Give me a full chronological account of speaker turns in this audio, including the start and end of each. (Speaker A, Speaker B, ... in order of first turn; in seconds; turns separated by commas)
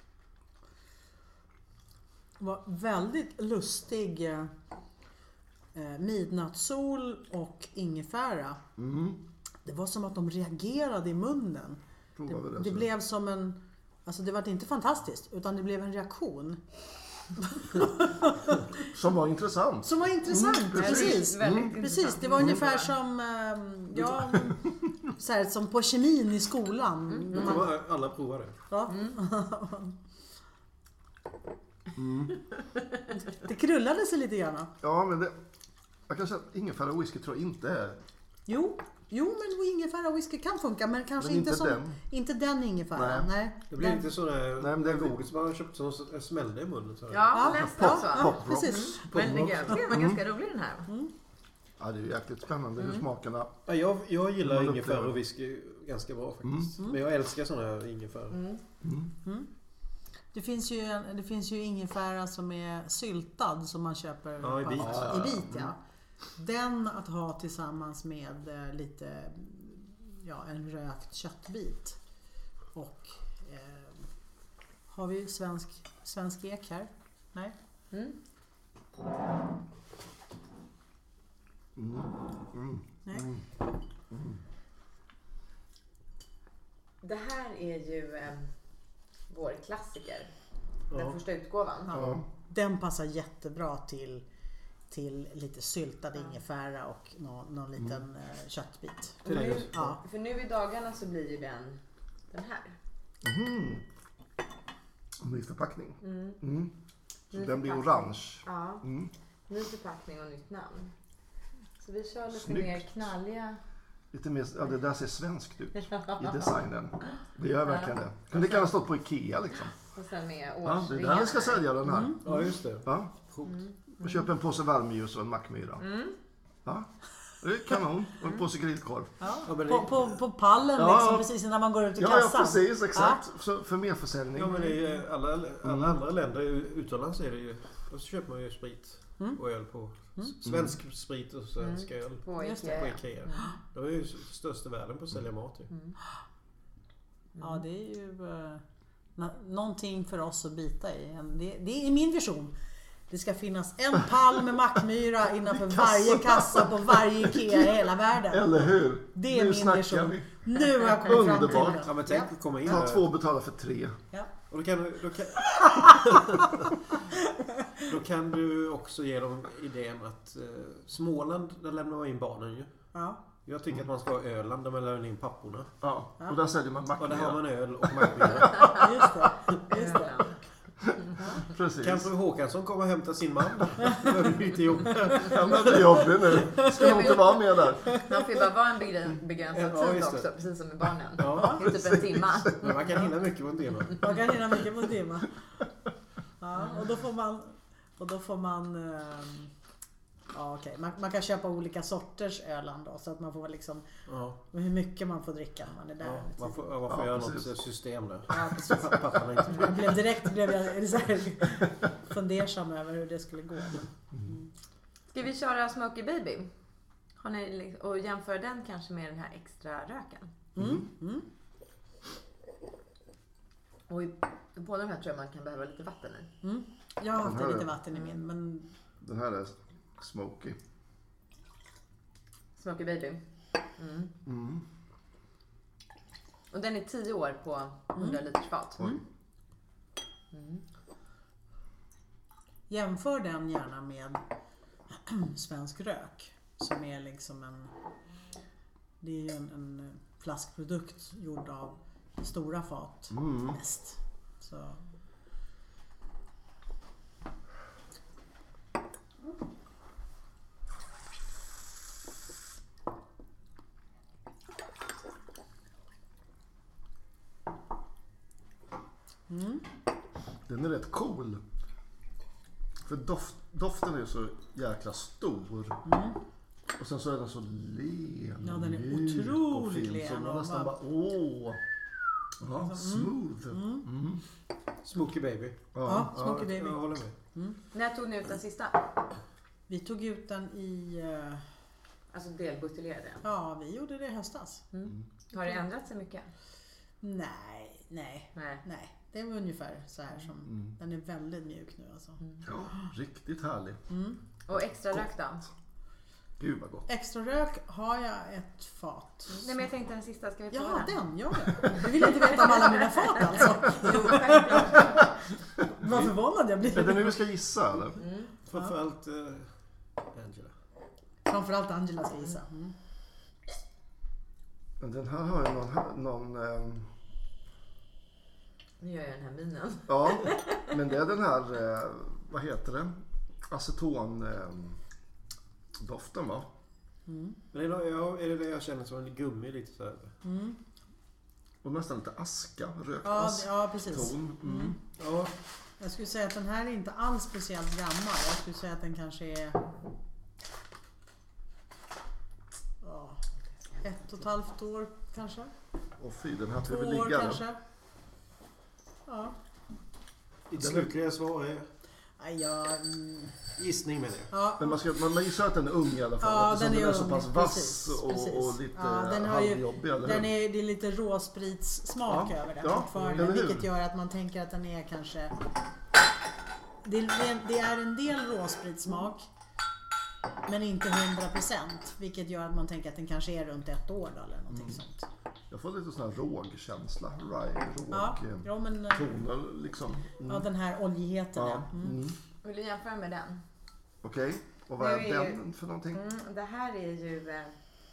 Speaker A: 2.4-4.5, Speaker A: 5.7-8.6, Speaker B: 8.8-9.2, Speaker A: 9.6-16.6, Speaker B: 12.2-12.9, Speaker A: 17.4-18.9, Speaker B: 18.8-21.8, Speaker A: 19.8-27.7, Speaker C: 20.7-22.9, Speaker B: 24.0-24.9, Speaker C: 27.1-27.5, Speaker D: 27.3-28.6, Speaker A: 28.7-30.0, Speaker C: 28.9-29.2, Speaker B: 31.9-32.4, Speaker A: 33.1-34.7, Speaker B: 34.8-35.4, Speaker B: 36.1-38.0, Speaker A: 38.5-44.1, Speaker B: 41.2-42.0, Speaker B: 42.9-43.3, Speaker D: 43.7-47.4, Speaker B: 44.5-45.2, Speaker C: 47.1-50.9, Speaker A: 47.3-49.2, Speaker B: 47.4-50.2, Speaker D: 49.1-49.7, Speaker B: 51.8-53.6, Speaker C: 52.8-53.0, Speaker D: 53.6-58.4, Speaker B: 54.4-55.2, Speaker B: 56.4-56.7, Speaker C: 58.3-58.6, Speaker B: 58.8-59.1, Speaker A: 59.2-59.5, Speaker A: 60.3-65.8, Speaker D: 64.4-65.1, Speaker B: 64.8-65.7, Speaker A: 66.3-72.0, Speaker A: 72.7-74.1, Speaker A: 74.9-77.5, Speaker C: 77.9-78.2, Speaker B: 81.8-83.5, Speaker B: 84.1-84.4, Speaker C: 87.0-88.5, Speaker C: 89.3-90.3, Speaker C: 90.9-91.9, Speaker D: 90.9-91.2, Speaker A: 91.9-94.2, Speaker B: 91.9-92.2, Speaker A: 94.9-100.0, Speaker C: 99.2-102.8, Speaker D: 99.2-99.9, Speaker B: 103.2-103.8, Speaker B: 105.2-106.7, Speaker C: 106.0-106.4, Speaker B: 107.3-109.1, Speaker C: 107.3-108.8, Speaker C: 109.5-110.9, Speaker C: 111.8-113.6, Speaker B: 112.3-112.9, Speaker B: 114.1-119.7, Speaker C: 115.7-116.5, Speaker C: 117.6-118.7, Speaker C: 119.9-121.8, Speaker B: 120.6-123.1, Speaker A: 121.8-122.3, Speaker D: 122.2-123.6, Speaker C: 123.4-124.3, Speaker B: 124.0-125.8, Speaker C: 125.8-126.2, Speaker B: 126.6-129.1, Speaker A: 129.2-133.2, Speaker D: 129.4-130.1, Speaker B: 130.7-131.3, Speaker B: 131.9-134.7, Speaker D: 134.3-145.7, Speaker B: 135.6-136.0, Speaker B: 140.4-140.8, Speaker C: 141.6-143.5, Speaker A: 142.4-143.5, Speaker C: 145.7-145.9, Speaker C: 147.3-147.6, Speaker A: 147.4-148.6, Speaker A: 149.2-152.5, Speaker A: 153.1-162.7, Speaker B: 155.5-162.0, Speaker D: 161.8-163.1, Speaker B: 162.6-164.0, Speaker D: 164.5-166.5, Speaker A: 165.5-166.2, Speaker A: 167.3-167.8, Speaker D: 167.9-172.7, Speaker A: 172.9-173.2, Speaker D: 173.4-175.7, Speaker B: 175.8-178.7, Speaker D: 177.0-178.9, Speaker A: 178.7-180.3, Speaker C: 179.7-180.4, Speaker A: 181.2-181.4, Speaker B: 181.5-182.1, Speaker D: 181.8-186.4, Speaker B: 185.3-188.0, Speaker A: 186.6-186.8, Speaker C: 186.7-193.0, Speaker D: 189.5-190.3, Speaker D: 191.2-191.8, Speaker B: 191.6-192.5, Speaker D: 192.5-194.2, Speaker A: 194.0-195.4, Speaker A: 196.4-199.5, Speaker C: 196.5-196.8, Speaker A: 200.3-206.7, Speaker D: 204.1-204.4, Speaker D: 206.0-210.2, Speaker B: 206.9-207.6, Speaker A: 208.3-214.5, Speaker C: 215.1-216.5, Speaker C: 217.2-220.3, Speaker B: 220.6-220.8, Speaker A: 220.6-221.2, Speaker C: 223.9-226.3, Speaker A: 226.4-228.7, Speaker B: 227.2-227.7, Speaker B: 229.0-230.6, Speaker C: 232.6-233.2, Speaker C: 233.8-234.1, Speaker B: 234.2-234.6, Speaker C: 236.5-238.9, Speaker C: 240.3-240.6, Speaker A: 242.7-244.2, Speaker A: 244.9-247.7, Speaker A: 249.0-254.8, Speaker B: 253.1-253.6, Speaker A: 269.3-269.6, Speaker B: 270.4-271.4, Speaker B: 272.8-275.8, Speaker A: 275.8-276.2, Speaker B: 276.8-281.6, Speaker A: 278.4-280.7, Speaker B: 282.4-284.2, Speaker A: 282.6-283.9, Speaker D: 284.8-287.1, Speaker B: 285.7-286.4, Speaker A: 285.8-287.6, Speaker C: 287.7-288.9, Speaker A: 289.7-291.4, Speaker C: 292.1-293.2, Speaker A: 293.2-294.6, Speaker C: 294.7-296.3, Speaker A: 297.0-302.2, Speaker C: 298.3-298.6, Speaker B: 302.4-303.8, Speaker A: 303.9-304.2, Speaker C: 304.5-305.4, Speaker B: 306.4-306.9, Speaker A: 306.9-309.5, Speaker C: 309.3-311.1, Speaker A: 310.5-314.9, Speaker C: 311.6-315.2, Speaker A: 315.7-317.2, Speaker B: 315.8-316.1, Speaker B: 316.7-318.0, Speaker C: 318.0-318.3, Speaker D: 318.4-319.5, Speaker D: 320.1-320.5, Speaker A: 321.2-322.7, Speaker B: 324.8-326.9, Speaker C: 328.8-330.7, Speaker B: 329.9-334.8, Speaker B: 335.8-336.5, Speaker A: 337.1-337.4, Speaker D: 337.5-340.1, Speaker A: 340.2-340.6, Speaker B: 341.6-344.8, Speaker A: 343.0-344.8, Speaker D: 345.0-345.3, Speaker A: 345.8-349.6, Speaker A: 352.8-353.2, Speaker A: 353.8-355.5, Speaker B: 356.0-357.4, Speaker A: 356.6-357.6, Speaker A: 359.1-359.4, Speaker D: 360.5-361.7, Speaker B: 360.5-360.9, Speaker A: 362.2-363.4, Speaker D: 363.6-364.3, Speaker A: 364.3-364.8, Speaker B: 364.6-370.3, Speaker A: 366.2-375.4, Speaker B: 372.1-373.7, Speaker A: 376.8-379.3, Speaker A: 380.4-385.1, Speaker B: 385.5-390.5, Speaker A: 387.9-389.1, Speaker A: 390.2-392.0, Speaker B: 391.3-392.2, Speaker C: 392.4-393.4, Speaker B: 394.0-396.0, Speaker C: 394.8-395.4, Speaker C: 395.9-397.5